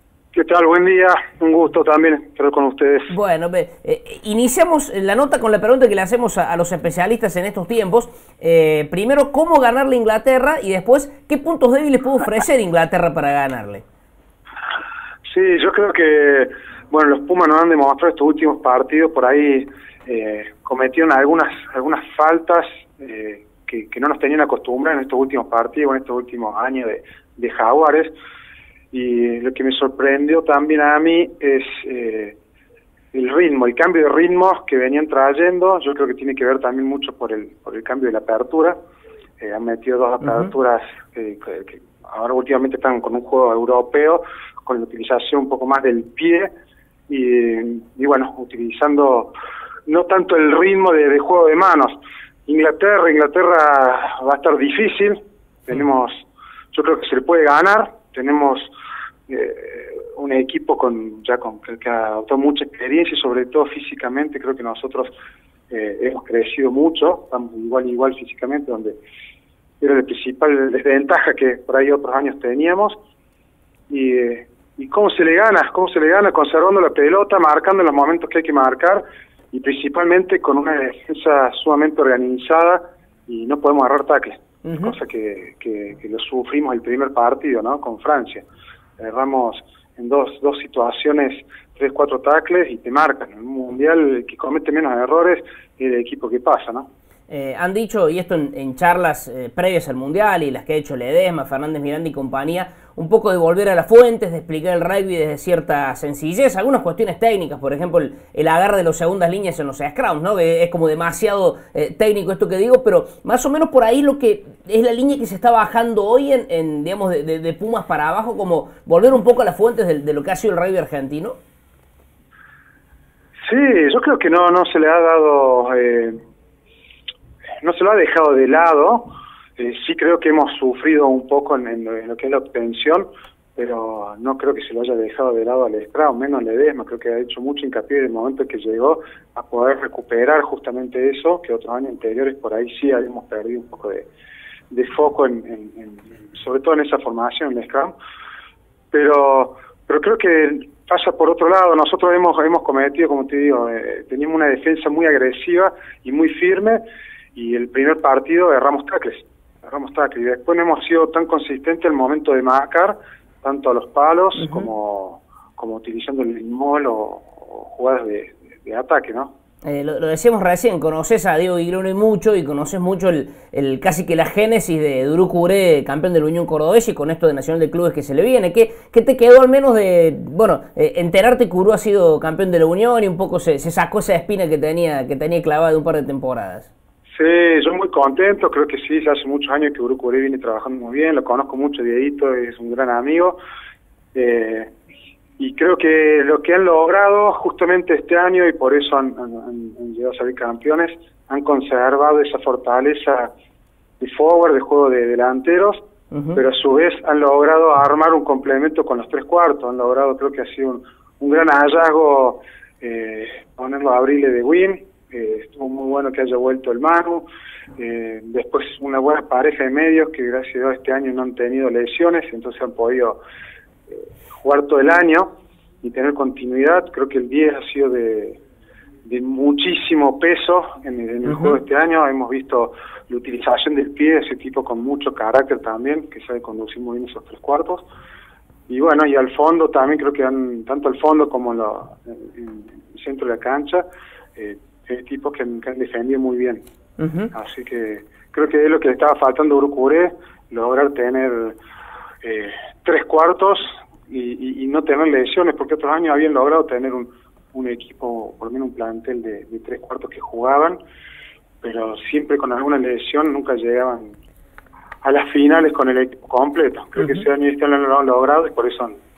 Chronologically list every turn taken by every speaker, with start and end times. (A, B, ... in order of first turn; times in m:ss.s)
0:00.3-0:03.1 A
0:03.1-0:13.8 B
0:15.3-0:28.1 A
0:28.9-0:32.4 A
0:33.1-0:38.8 A
0:39.4-0:46.5 A
0:40.2-0:40.5 B
0:47.1-0:49.3 A
0:49.8-0:58.7 A
0:59.3-1:05.1 A
1:05.7-1:09.0 A
1:09.8-1:13.0 A
1:13.9-1:28.4 A
1:24.6-1:24.9 B
1:29.0-1:36.9 A
1:37.3-2:01.4 B
2:03.4-2:06.2 A
2:07.6-2:09.0 A
2:09.6-2:24.1 A
2:24.7-2:27.9 A
2:28.9-2:36.8 A
2:37.3-2:49.3 A
2:49.6-3:06.7 B
3:07.1-3:13.4 A
3:14.1-3:14.7 A
3:15.4-3:23.3 A
3:24.0-3:25.8 A
3:26.1-3:26.4 B
3:26.3-3:37.2 A
3:37.8-3:43.2 A
3:44.4-3:48.4 A
3:49.0-3:57.8 A
3:51.3-3:51.5 B
3:58.7-4:03.8 A
4:04.4-4:06.6 A
4:07.0-4:07.3 B
4:07.3-4:11.6 A
4:12.2-4:20.8 A
4:21.6-4:24.2 A
4:25.0-4:29.0 A